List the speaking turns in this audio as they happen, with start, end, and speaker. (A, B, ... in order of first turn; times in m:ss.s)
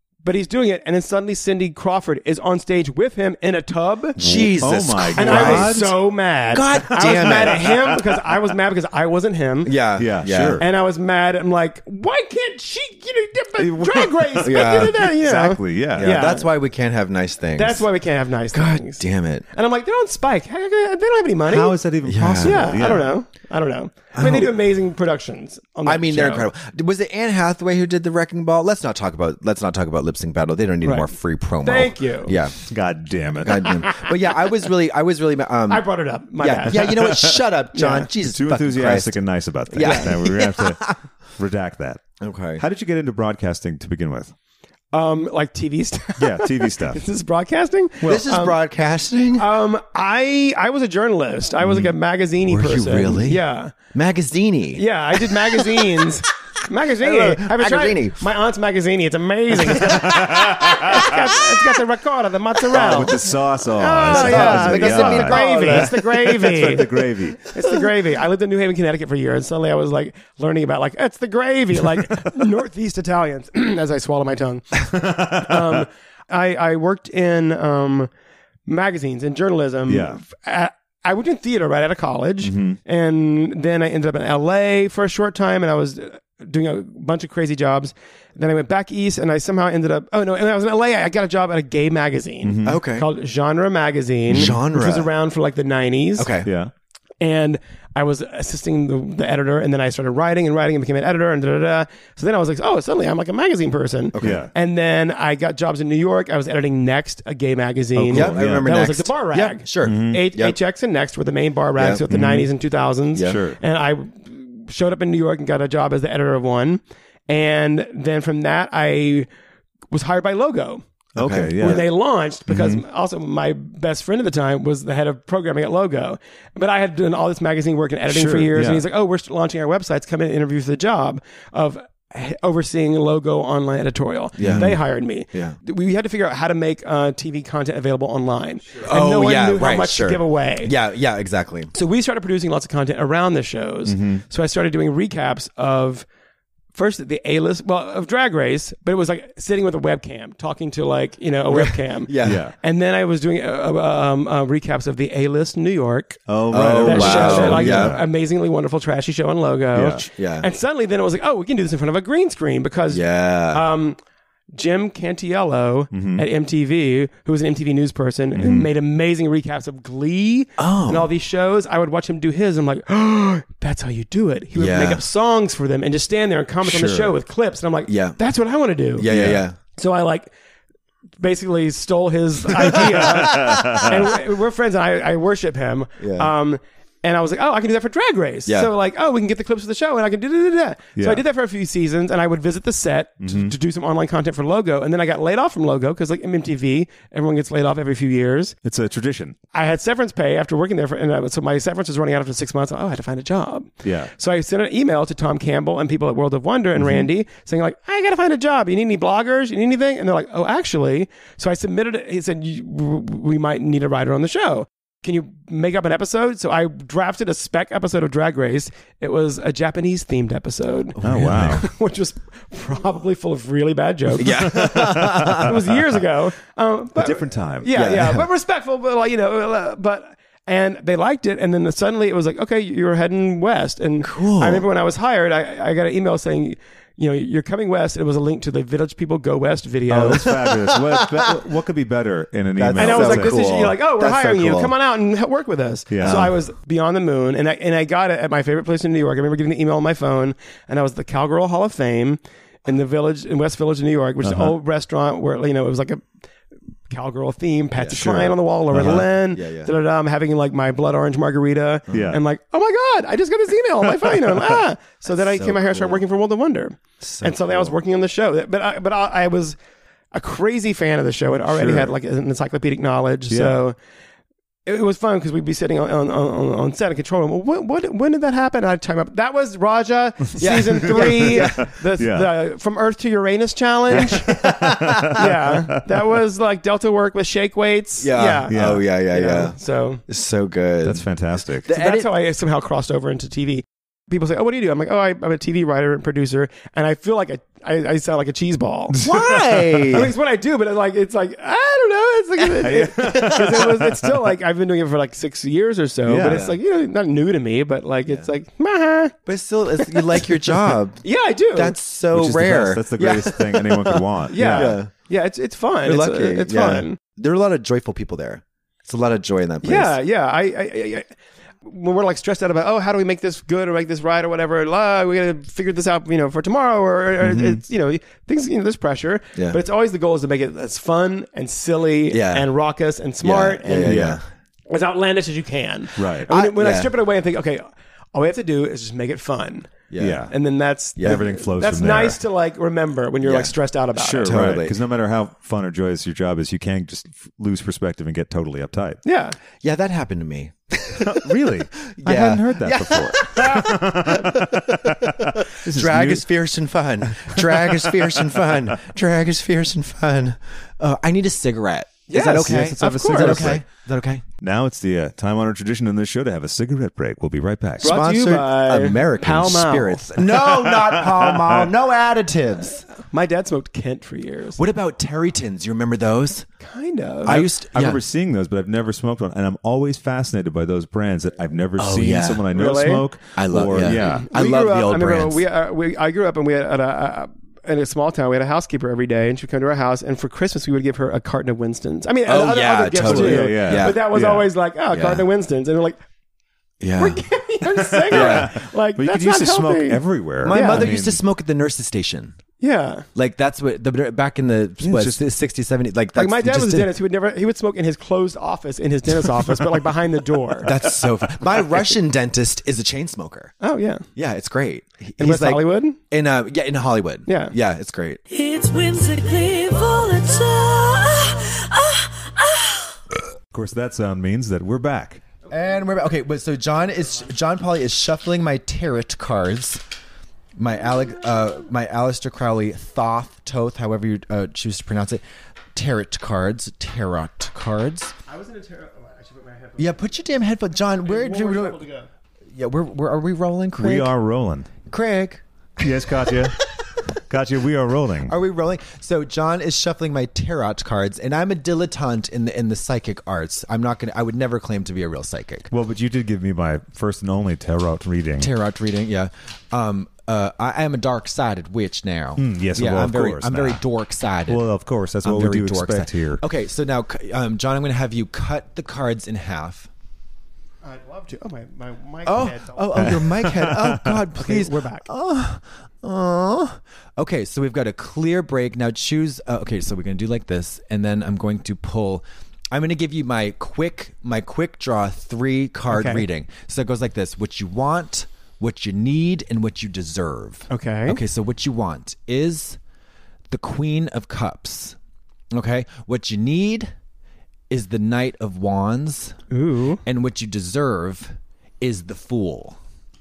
0:00.2-0:04.2 A
0:04.2-0:05.9 B
0:04.2-0:05.9 C
0:05.2-0:09.8 A
0:06.5-0:08.1 B
0:09.6-0:10.6 B
0:10.0-0:10.6 C
0:10.4-0:16.5 A
0:13.6-0:16.2 C
0:14.4-0:15.0 B
0:16.0-0:17.8 B
0:17.6-0:21.8 A
0:18.5-0:19.4 B
0:21.5-0:23.1 C
0:22.0-0:23.1 B
0:22.4-0:26.5 A
0:24.2-0:24.5 B
0:25.8-0:32.6 B
0:30.8-0:31.1 A
0:31.6-0:32.4 A
0:32.6-0:33.8 C
0:33.4-0:35.8 B
0:33.8-0:34.1 A
0:35.7-0:37.2 A
0:36.4-0:39.2 B
0:37.7-0:38.1 A
0:38.2-0:42.0 C
0:39.7-0:41.0 B
0:39.8-0:40.2 A
0:42.2-0:42.6 B
0:42.6-0:44.3 C
0:44.9-0:48.6 A
0:46.2-0:47.0 C
0:48.0-0:49.5 B
0:49.4-0:53.8 A
0:51.6-0:51.9 C
0:52.5-0:53.4 B
0:53.9-0:55.8 B
0:54.8-1:18.1 A
0:57.0-0:58.2 B
0:59.7-1:01.2 C
1:02.7-1:07.4 C
1:04.0-1:06.8 B
1:15.0-1:15.8 C
1:18.7-1:36.3 A
1:19.9-1:20.2 C
1:22.4-1:22.8 C
1:32.4-1:32.8 C
1:32.6-1:33.1 B
1:34.3-1:35.1 B
1:36.2-1:36.5 B
1:36.4-1:36.7 C
1:37.2-1:59.3 A
1:44.2-1:44.4 B
1:44.2-1:44.5 C
1:48.0-1:48.7 C
1:48.1-1:50.6 B
1:49.8-1:50.2 C
1:51.8-1:52.0 B
1:52.1-1:52.5 C
1:53.2-1:53.4 B
1:53.2-1:53.6 C
1:59.9-2:00.8 A
2:01.2-2:01.8 C
2:01.2-2:01.8 B
2:01.6-2:20.7 A
2:02.5-2:02.8 C
2:08.1-2:08.8 C
2:14.4-2:14.8 B
2:14.4-2:14.8 C
2:18.8-2:21.7 B
2:21.8-2:26.1 A
2:23.9-2:24.2 C
2:26.7-2:44.0 A
2:31.5-2:32.4 B
2:32.2-2:32.5 C
2:36.3-2:38.0 C
2:36.5-2:38.0 B
2:39.8-2:40.1 C
2:40.1-2:40.5 B
2:42.9-2:43.6 B
2:44.5-2:59.1 A
2:45.9-2:46.2 C
2:48.4-2:48.7 C
2:50.6-2:51.1 B
2:54.6-2:55.0 B
2:56.6-2:57.1 C
2:57.9-2:58.2 B
2:59.0-2:59.6 B
2:59.1-2:59.4 C
2:59.7-3:00.3 A
3:01.2-3:18.6 A
3:02.7-3:04.0 C
3:03.0-3:03.8 B
3:06.0-3:06.3 B
3:08.5-3:08.7 B
3:11.0-3:11.2 C
3:13.2-3:13.5 C
3:18.6-3:19.4 C
3:19.5-4:00.4 A
3:23.8-3:24.1 C
3:41.0-3:41.7 B
3:41.0-3:41.6 C
3:44.2-3:45.6 B
3:44.3-3:45.6 C
3:47.0-3:47.7 C
3:47.7-3:48.3 B
3:54.0-3:54.7 B
3:59.9-4:03.4 C
4:00.3-4:01.3 B
4:02.6-4:04.7 B
4:02.8-4:16.1 A
4:05.9-4:06.3 C
4:06.0-4:06.4 B
4:14.2-4:14.5 C
4:16.9-4:29.6 A
4:17.8-4:18.1 B
4:17.9-4:19.1 C
4:18.8-4:19.7 B
4:21.9-4:22.2 C
4:25.2-4:26.0 B
4:27.0-4:27.8 B
4:30.1-4:33.8 A
4:31.5-4:31.9 C
4:33.3-4:33.6 C
4:34.7-4:44.4 A
4:40.4-4:41.6 B
4:41.0-4:42.3 C
4:43.9-4:45.3 B
4:44.0-4:45.8 C
4:45.0-4:50.0 A
4:48.0-4:49.6 B
4:48.5-4:48.8 C
4:50.1-4:51.0 B
4:50.8-4:51.7 C
4:51.6-4:52.1 B
4:51.7-4:59.0 A
4:59.0-5:00.0 C
4:59.0-5:00.1 B
4:59.9-5:09.2 A
5:02.6-5:04.1 C
5:03.1-5:03.4 B
5:06.1-5:06.5 C
5:06.2-5:06.6 B
5:09.3-5:14.9 B
5:09.8-5:10.4 A
5:11.0-5:11.8 A
5:12.1-5:14.8 C
5:14.3-5:17.0 A
5:15.8-5:20.0 B
5:19.6-5:21.1 A
5:21.6-5:34.1 A
5:27.2-5:27.6 C
5:32.1-5:32.5 B
5:33.2-5:34.2 B
5:33.8-5:34.2 C
5:34.7-5:44.4 A
5:36.0-5:36.3 C
5:36.3-5:36.9 B
5:39.9-5:40.3 B
5:40.0-5:40.3 C
5:41.0-5:41.2 B
5:41.0-5:42.2 C
5:43.2-5:43.5 B
5:44.0-5:49.0 C
5:44.2-5:44.8 B
5:49.0-5:49.4 A
5:49.6-6:04.2 B
5:51.0-5:56.3 C
5:57.1-5:58.5 C
6:02.1-6:03.6 A
6:02.4-6:03.6 C
6:04.4-6:08.0 C
6:07.8-6:10.1 A
6:07.8-6:12.8 B
6:10.4-6:11.7 C
6:13.0-6:14.6 A
6:14.6-6:16.5 B
6:16.6-6:17.4 A
6:17.2-6:18.0 B
6:17.3-6:24.3 C
6:21.8-6:22.5 B
6:22.5-6:23.0 A
6:23.4-6:25.4 B
6:23.8-6:36.0 A
6:32.3-6:34.0 B
6:33.0-6:34.5 C
6:34.9-6:35.3 B
6:36.8-6:37.2 B
6:37.0-6:41.0 A
6:38.0-6:41.2 C
6:38.1-6:38.5 B
6:40.4-6:42.4 B
6:42.6-6:43.1 A
6:43.2-6:46.9 B
6:44.8-6:45.2 C
6:46.2-6:50.8 A
6:50.6-6:53.5 B
6:53.6-6:54.0 A
6:54.2-6:58.2 B
6:55.2-6:56.0 A
6:57.3-6:57.6 A
6:58.3-7:03.0 D
7:03.5-7:05.2 C
7:05.5-7:09.8 B
7:10.6-7:15.2 B
7:15.8-7:18.2 B
7:18.3-7:20.1 A
7:19.8-7:21.8 B
7:20.9-7:22.1 A
7:22.5-7:24.1 B
7:23.8-7:24.7 C
7:24.9-7:25.4 B
7:25.8-7:26.6 C
7:26.2-7:26.5 B
7:27.2-7:28.4 C
7:28.3-7:35.7 B
7:35.7-7:38.5 C
7:38.4-7:44.7 B
7:42.4-7:43.8 C
7:44.5-7:46.4 C
7:45.2-7:49.9 B
7:50.8-7:53.3 A
7:52.3-8:12.8 B
7:53.0-7:54.2 C
7:54.3-7:55.1 A
8:05.9-8:06.2 A
8:10.7-8:11.2 A
8:13.5-8:15.0 B
8:15.5-8:16.9 B
8:17.7-8:19.4 B
8:19.5-8:20.0 A
8:20.0-8:22.8 B